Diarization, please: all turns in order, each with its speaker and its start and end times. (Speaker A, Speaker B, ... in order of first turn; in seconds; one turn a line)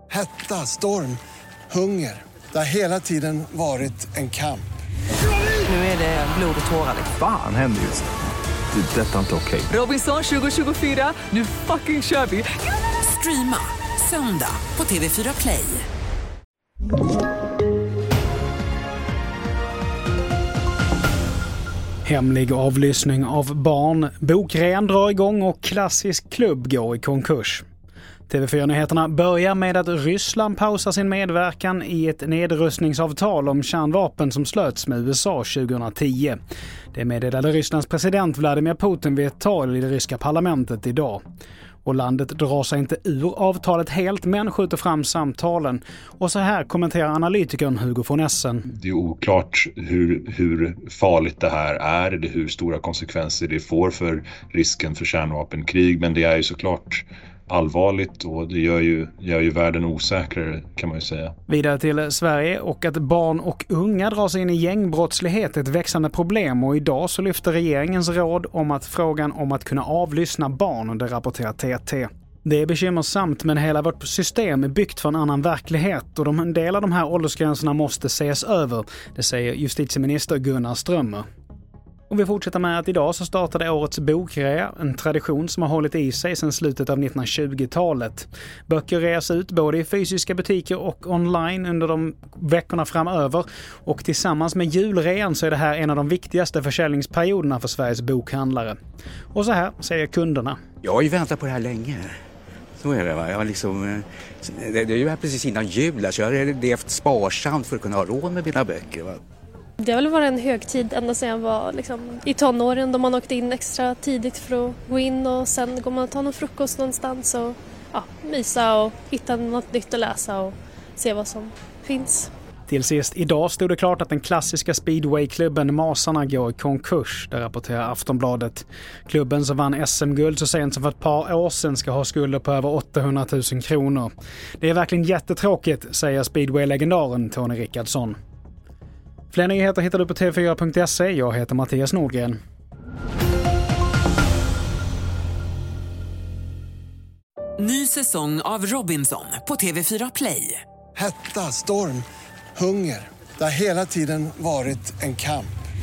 Speaker A: 0.1-4.7
Speaker B: 5.7-7.0
Speaker C: 7.1-8.1
Speaker C: 8.7-9.7
Speaker B: 9.7-15.8
Speaker D: 22.0-27.6
Speaker D: 28.3-36.4
Speaker D: 36.9-41.2
Speaker D: 41.8-48.7
Speaker E: 48.7-61.3
Speaker D: 61.5-81.2
Speaker D: 82.1-98.8
Speaker D: 99.3-100.6
Speaker F: 100.8-102.1
Speaker F: 102.8-109.2
Speaker G: 109.8-122.3
Speaker D: 122.7-138.2
Speaker D: 139.3-142.4
Speaker B: 147.6-150.6
Speaker A: 150.9-152.0
Speaker A: 152.6-155.5